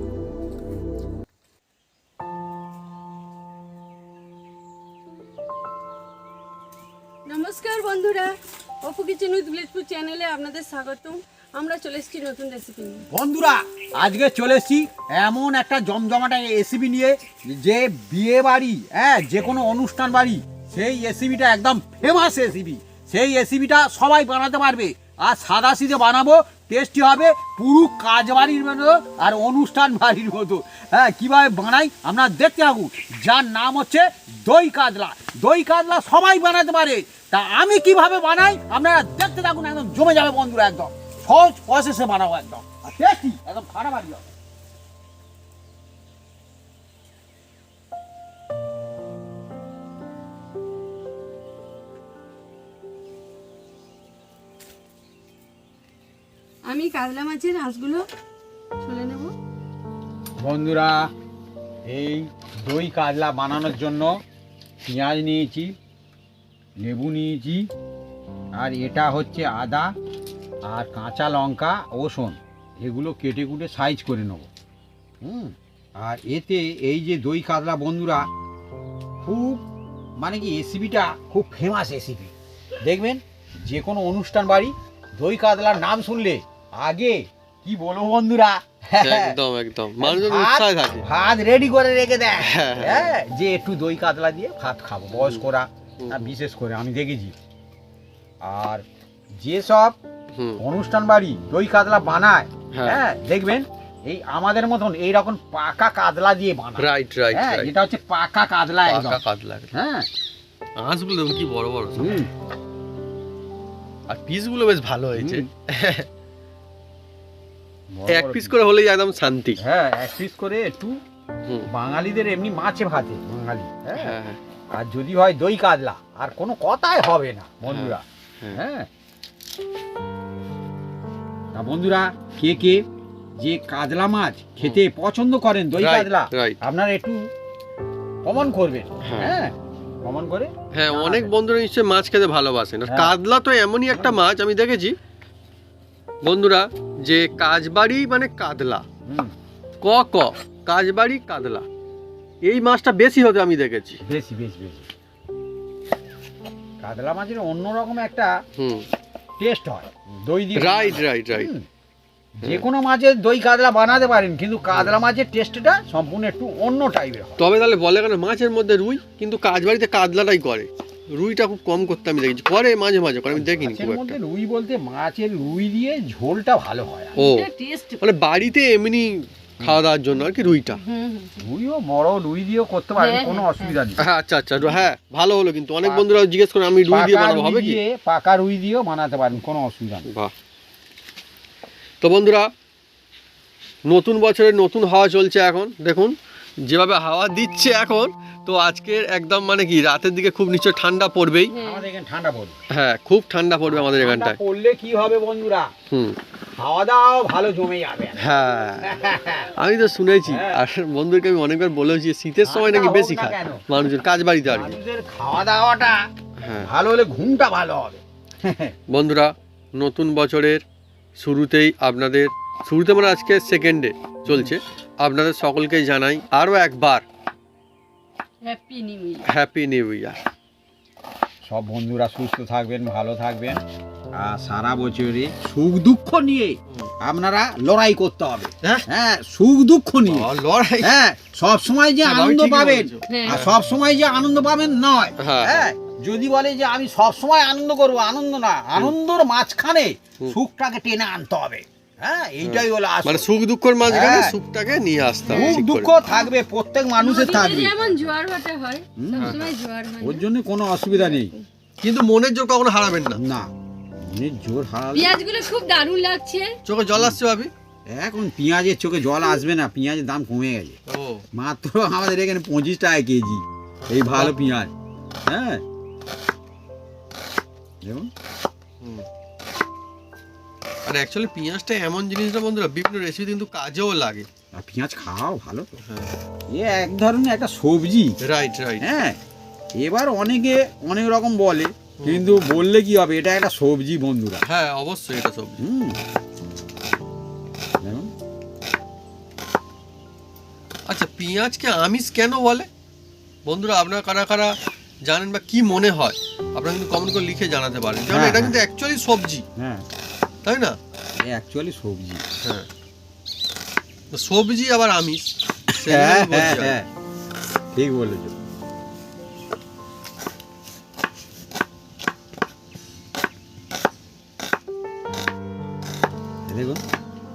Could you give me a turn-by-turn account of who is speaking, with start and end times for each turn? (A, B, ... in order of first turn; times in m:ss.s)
0:07.3-0:13.1 A
0:13.1-0:44.3 B
0:56.7-0:58.0 A
0:58.8-0:59.3 A
1:00.4-1:01.1 B
1:01.9-1:04.2 B
1:04.8-1:05.8 B
1:06.8-1:07.7 B
1:08.6-1:09.9 B
1:10.7-1:14.5 B
1:15.2-1:18.3 B
1:19.2-1:19.6 B
1:20.2-1:29.4 B
1:29.0-1:31.1 C
1:30.0-1:37.4 B
1:32.4-1:33.2 C
1:35.2-1:35.4 C
1:36.0-1:36.4 C
1:38.4-1:38.8 B
1:39.4-1:40.0 B
1:40.3-1:40.6 C
1:40.6-1:49.2 B
1:42.7-1:43.0 C
1:46.8-1:47.7 C
1:48.9-1:49.7 C
1:49.7-1:50.1 B
1:50.8-1:52.2 C
1:52.0-1:52.3 B
1:54.1-1:56.1 C
1:55.2-1:55.5 B
1:57.9-1:58.6 B
1:58.1-1:59.6 C
1:59.6-2:01.0 B
2:01.7-2:04.2 B
2:03.9-2:04.4 C
2:04.7-2:08.9 B
2:07.7-2:08.6 C
2:11.5-2:12.8 B
2:13.4-2:17.3 B
2:15.8-2:16.6 C
2:18.2-2:21.3 B
2:19.0-2:19.4 C
2:20.7-2:25.0 C
2:22.9-2:23.1 B
2:23.9-2:24.2 B
2:26.2-2:28.8 C
2:29.1-2:29.4 B
2:29.8-2:31.7 C
2:32.4-2:34.0 C
2:34.0-2:34.9 B
2:36.8-2:38.3 B
2:38.6-2:38.9 C
2:39.4-2:41.7 B
2:40.6-2:41.5 C
2:42.4-2:47.4 B
2:47.4-2:54.2 C
2:53.3-2:57.2 B
2:57.2-2:58.0 A
2:57.2-2:57.5 C
2:58.0-3:00.8 C
3:00.8-3:01.4 A
3:01.4-3:04.0 B
3:03.0-3:03.8 A
3:04.0-3:07.8 C
3:05.8-3:06.1 B
3:06.9-3:10.1 B
3:10.1-3:10.3 C
3:12.0-3:12.5 C
3:13.9-3:21.5 C
3:21.5-3:21.8 A
3:21.6-3:22.6 B
3:22.7-3:24.4 C
3:23.7-3:25.7 B
3:25.9-3:26.2 C
3:26.5-3:28.2 B
3:28.2-3:28.9 C
3:28.8-3:29.5 B
3:29.6-3:34.8 C
3:30.3-3:30.6 B
3:32.4-3:33.6 B
3:34.4-3:36.0 B
3:36.4-3:36.7 C
3:36.6-3:38.7 B
3:38.9-3:40.6 C
3:41.2-3:47.0 C
3:44.2-3:44.6 B
3:48.4-3:49.3 A
3:49.3-3:50.2 C
3:51.4-3:53.6 B
3:54.1-4:00.3 B
3:58.6-3:58.9 C
4:00.0-4:00.9 C
4:00.8-4:13.3 B
4:02.0-4:03.6 C
4:03.1-4:03.4 A
4:05.2-4:05.7 C
4:12.4-4:15.9 C
4:13.9-4:14.4 B
4:15.3-4:16.3 A
4:15.3-4:17.8 B
4:17.0-4:20.2 A
4:19.0-4:19.4 B
4:20.0-4:21.3 B
4:20.9-4:21.5 A
4:21.8-4:23.2 C
4:23.1-4:25.2 B
4:24.9-4:26.6 A
4:26.6-4:27.5 C
4:27.9-4:30.8 B
4:30.9-4:31.2 C
4:31.3-4:34.7 B
4:33.8-4:34.4 C
4:35.3-4:35.6 B
4:37.8-4:38.1 B
4:38.8-4:39.1 C
4:40.9-4:44.3 C
4:44.6-4:45.8 B
4:45.8-4:46.1 C
4:46.5-4:48.2 B
4:48.2-4:48.9 C
4:48.8-4:49.2 B
4:49.8-4:54.4 B
4:52.0-4:52.6 C
4:54.4-4:55.6 C
4:55.6-4:56.0 B
4:57.8-4:58.1 B
5:00.9-5:02.7 C
5:03.5-5:09.5 C
5:08.1-5:08.6 B
5:09.6-5:09.9 B
5:10.4-5:10.8 C
5:11.2-5:12.2 B
5:14.1-5:16.8 C
5:15.7-5:16.9 B
5:17.7-5:18.4 B
5:26.5-5:26.8 B